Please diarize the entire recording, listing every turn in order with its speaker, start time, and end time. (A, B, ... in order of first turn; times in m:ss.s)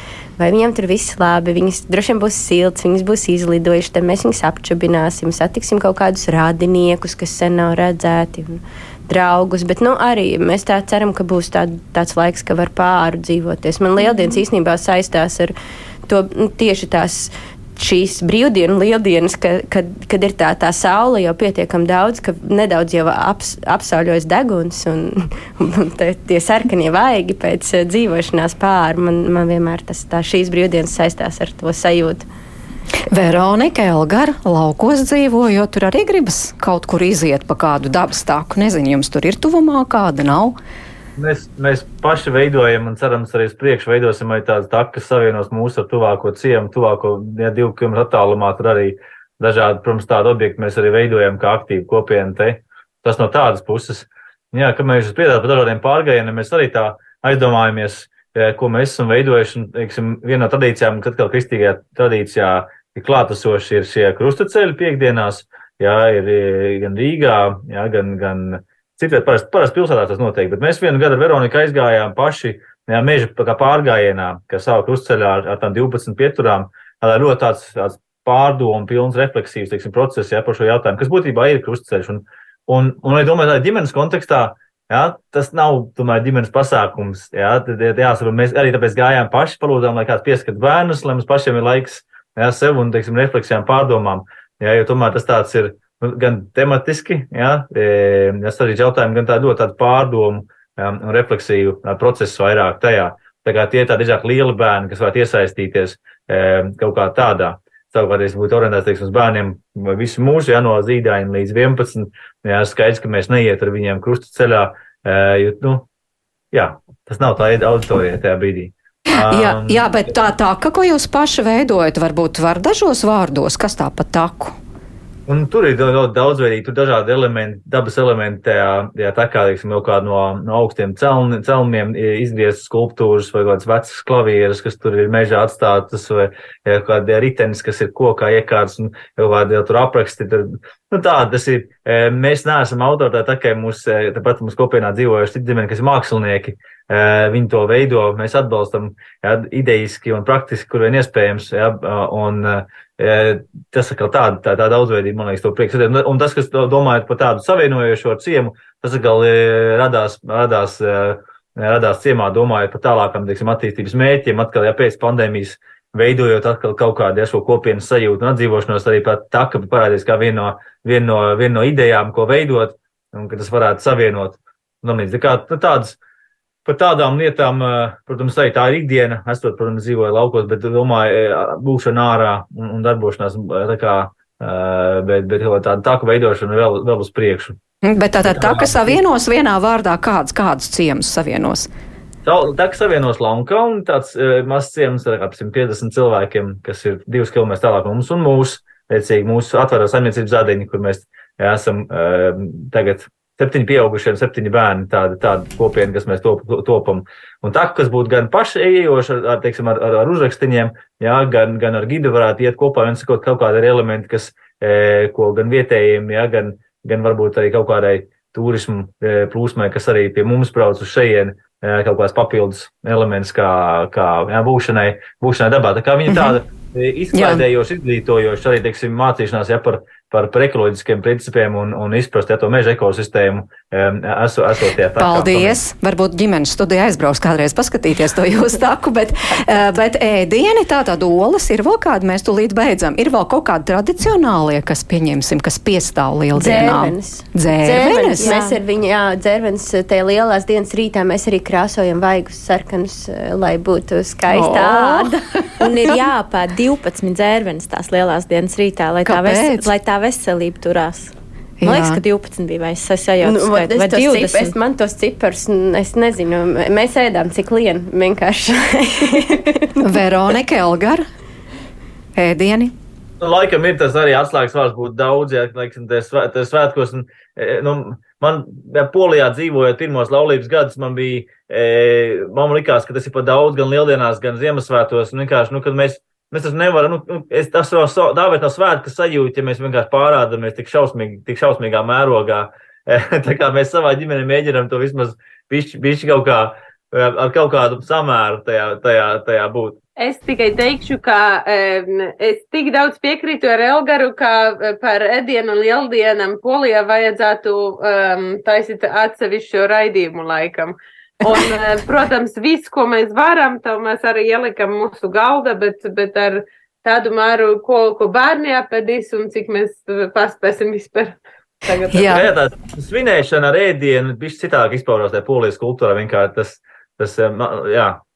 0:00.4-0:15.5 A
0:16.1-0:32.2 A
0:33.1-0:40.6 B
0:41.2-1:55.8 C
1:56.5-1:59.9 C
1:59.1-2:04.6 B
2:05.3-2:56.0 C
2:56.6-3:07.6 C
3:07.8-3:11.7 B
3:08.2-3:09.0 C
3:12.2-3:55.6 C
3:46.1-3:46.4 B
3:47.1-3:47.4 B
3:55.0-4:08.3 B
4:06.3-4:15.2 A
4:08.2-4:08.6 D
4:14.3-4:15.1 B
4:15.6-4:24.5 D
4:19.0-4:19.7 B
4:21.6-4:22.0 B
4:23.2-4:29.8 A
4:29.8-4:31.0 B
4:32.1-4:32.7 B
4:33.2-4:59.8 C
5:00.0-5:22.3 E
5:21.9-5:22.2 B
5:22.1-5:28.0 C